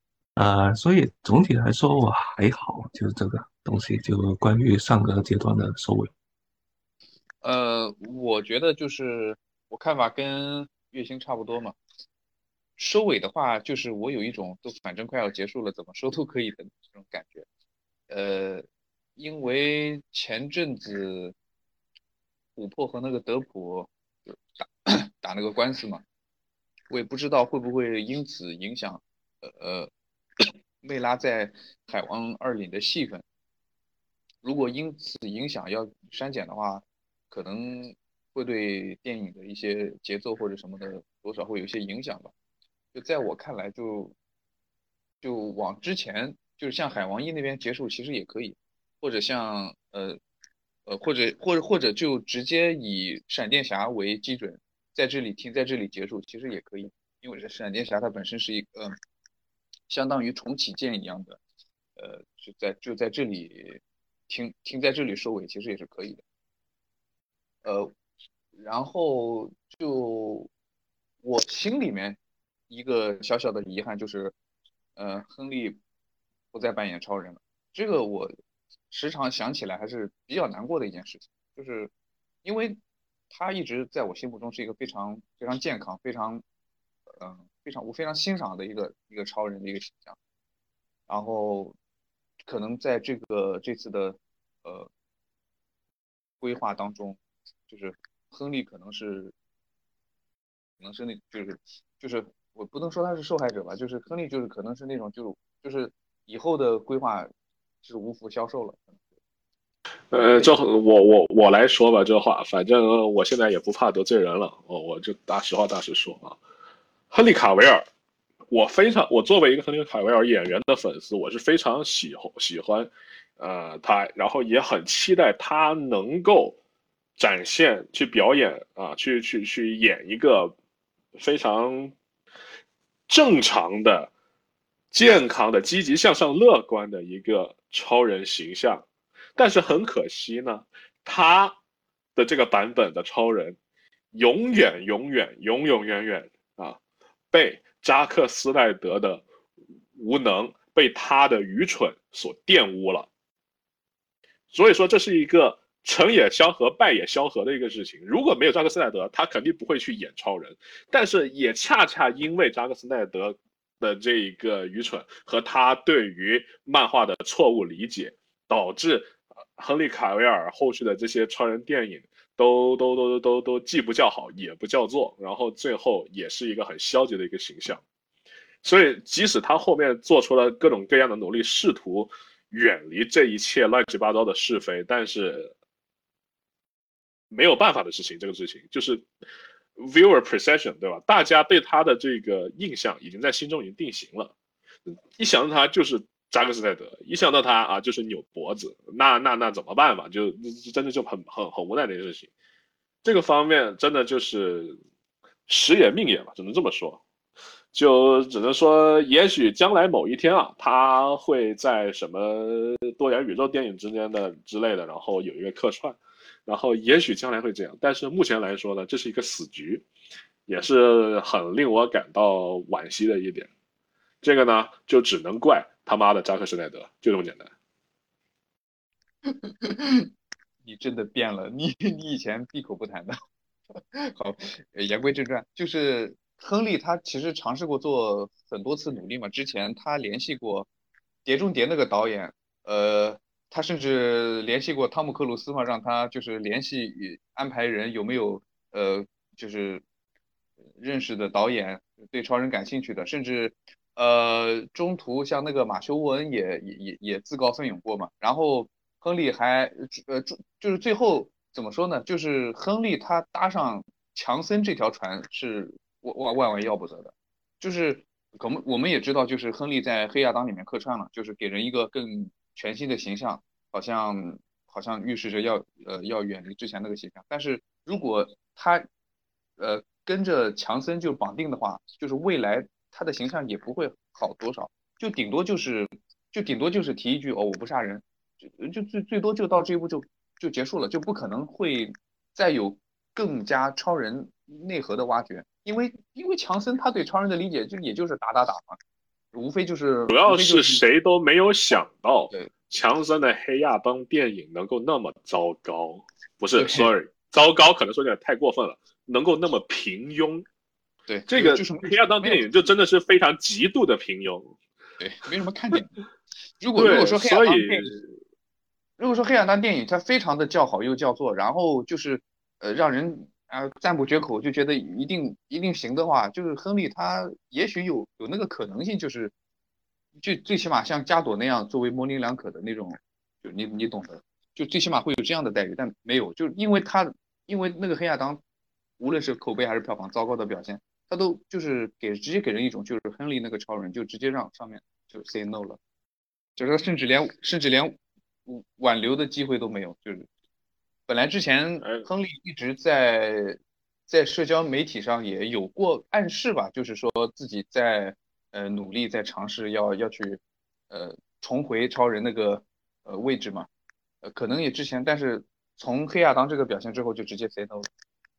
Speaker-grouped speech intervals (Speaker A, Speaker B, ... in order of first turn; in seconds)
Speaker A: 0.3-6.1
Speaker B: 7.4-11.8, 12.8-17.4, 18.1-18.6, 19.2-21.3, 22.6-23.9, 24.6-26.0, 26.9-33.2, 34.4-42.3, 42.9-44.1, 45.2-50.2, 50.9-58.9, 59.9-61.4, 62.0-66.2, 67.6-67.9, 68.5-70.5, 71.2-72.2, 72.7-74.3, 75.0-75.8, 76.5-78.3, 78.9-81.9, 82.4-82.8, 83.3-86.4, 87.2-90.2, 91.1-91.7, 92.5-94.9, 96.4-99.3, 100.8-107.3, 107.8-109.0, 110.2-110.5, 229.2-230.1, 230.6-233.1, 234.0-240.7, 241.2-249.8, 250.8-278.9, 279.6-298.8, 299.3-300.8, 306.5-306.9, 311.1-312.5, 315.0-315.9, 316.6-317.9, 319.0-329.3, 330.2-338.4, 339.0-345.8, 346.6-350.3, 351.1-360.4, 360.9-363.7, 364.2-367.9
Speaker C: 110.1-116.4, 117.1-117.8, 118.5-126.6, 127.2-130.5, 131.2-131.9, 133.1-134.1, 134.9-138.8, 139.4-141.6, 142.2-143.6, 144.1-146.8, 147.3-149.2, 150.0-153.1, 154.5-177.8, 178.6-185.5, 187.3-189.1, 189.8-194.3, 194.9-202.3, 203.0-204.8, 205.5-207.0, 207.7-219.8, 220.5-223.5, 224.2-227.5, 300.1-310.4, 311.3-314.5, 316.8-318.1, 351.8-352.1